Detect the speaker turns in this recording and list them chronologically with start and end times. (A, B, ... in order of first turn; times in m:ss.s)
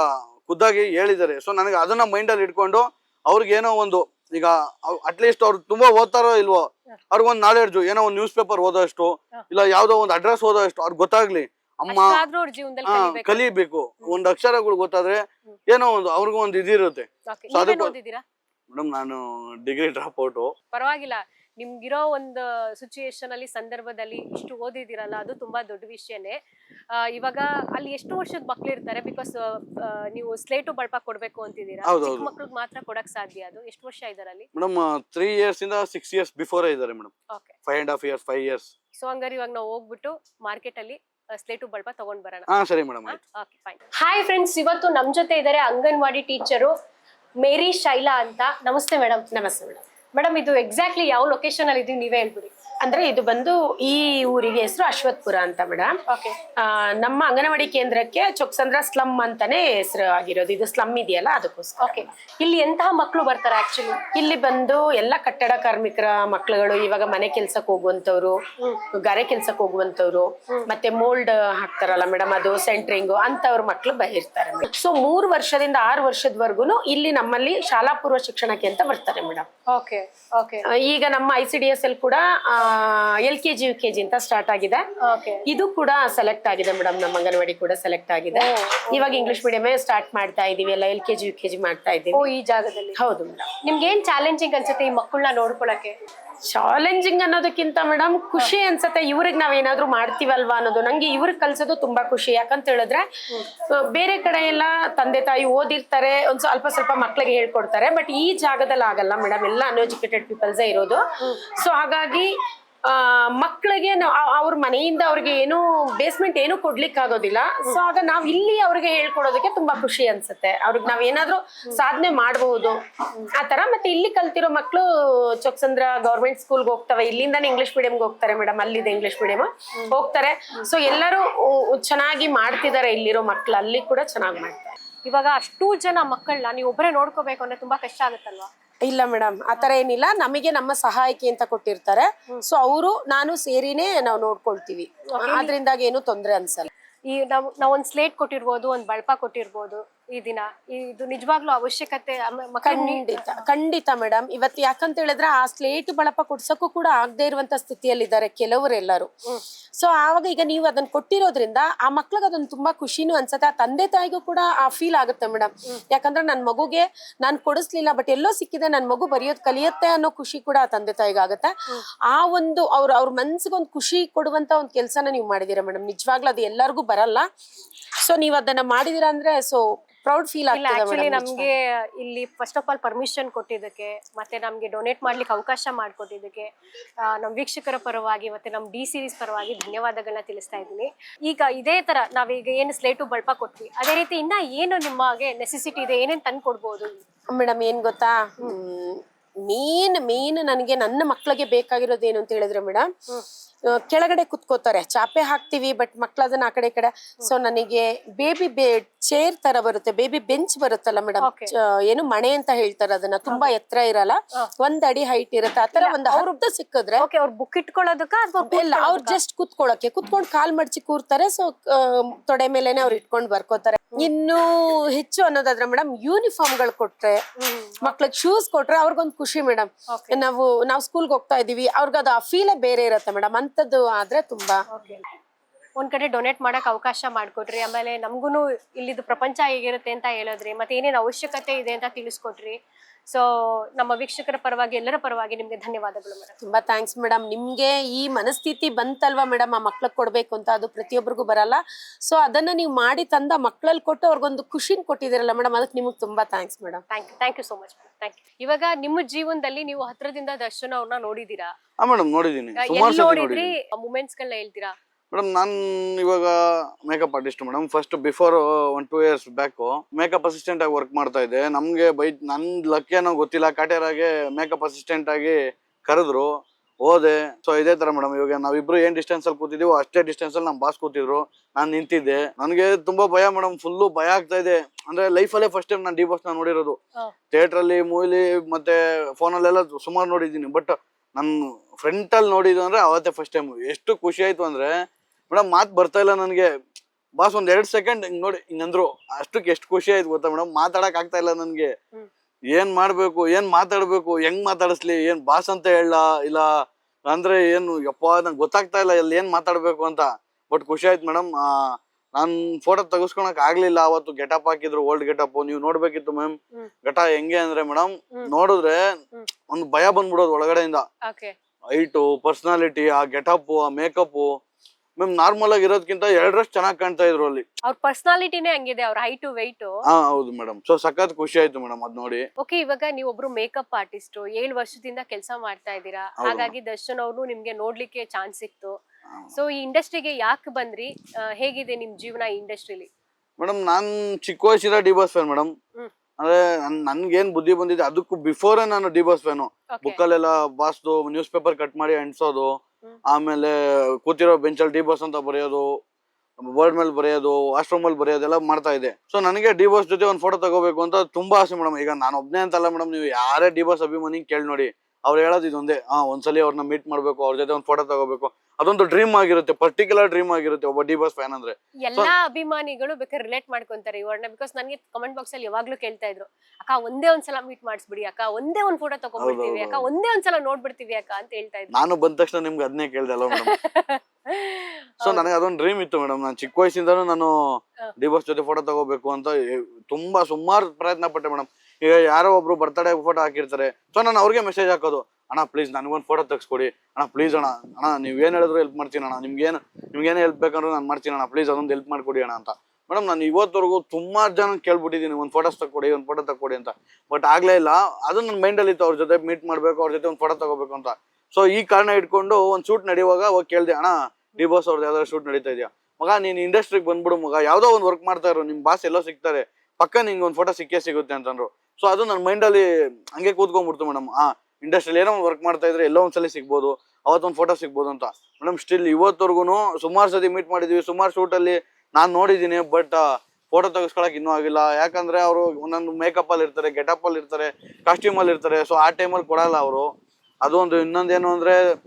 0:00.4-0:12.2 A
0:11.9-0:13.4 B
0:12.8-0:17.9 A
0:17.3-0:18.2 B
0:18.7-0:20.5 A
0:20.7-0:26.4 B
0:26.9-0:34.5 B
0:31.8-0:32.3 A
0:34.5-0:37.1 A
0:37.3-0:37.6 B
0:37.6-0:38.7 A
0:38.9-0:42.5 B
0:42.5-0:43.2 A
0:43.1-0:46.7 B
0:47.4-0:49.3 B
0:49.3-0:49.8 C
0:50.1-0:52.5 B
0:52.8-0:56.0 C
0:56.1-0:56.3 B
0:56.6-1:02.0 C
1:01.8-1:04.0 B
1:04.1-1:08.4 C
1:08.9-1:19.5 C
1:19.7-1:20.6 B
1:20.7-1:24.8 C
1:25.0-1:25.4 B
1:25.4-1:32.3 C
1:28.3-1:29.4 B
1:32.1-1:33.0 B
1:33.0-1:33.5 C
1:33.6-1:35.9 B
1:36.5-1:43.0 C
1:43.7-1:51.0 C
1:51.5-1:52.3 C
1:52.8-2:02.8 C
2:03.4-2:14.7 C
2:15.0-2:18.5 B
2:18.8-2:26.7 C
2:25.1-2:25.5 B
2:27.1-2:33.4 B
2:32.6-2:39.1 C
2:39.8-2:51.5 C
2:52.1-2:57.3 C
2:58.0-3:01.5 C
3:00.5-3:06.5 B
3:07.0-3:17.0 B
3:17.3-3:22.9 C
3:23.7-3:37.0 C
3:31.2-3:31.5 B
3:35.8-3:36.4 B
3:37.0-3:39.2 B
3:38.4-3:47.2 C
3:47.4-3:47.9 B
3:47.8-3:54.6 C
3:49.9-3:50.2 B
3:54.7-3:55.0 B
3:55.8-4:02.6 B
4:03.1-4:06.4 B
4:06.4-4:16.8 C
4:16.9-4:21.5 B
4:21.8-4:23.5 A
4:22.6-4:24.7 B
4:25.1-4:46.8 A
4:47.3-4:54.7 A
4:55.3-4:56.5 A
4:57.2-5:01.7 A
5:02.5-5:19.0 A
5:19.5-5:20.8 A
5:21.0-5:21.3 B
5:21.7-5:24.4 A
5:25.0-5:27.4 A
5:27.7-5:29.8 B
5:29.9-5:32.2 A
5:32.4-5:38.8 B
5:36.2-5:36.5 A
5:39.3-5:42.9 B
5:43.4-5:45.5 A
5:46.2-5:52.5 A
5:49.7-5:50.0 B
5:53.1-5:55.8 A
5:56.4-6:12.1 A
6:11.8-6:21.8 B
6:19.2-6:19.9 A
6:21.7-6:23.6 A
6:23.3-6:25.3 B
6:25.0-7:19.9 A
7:20.4-7:21.6 A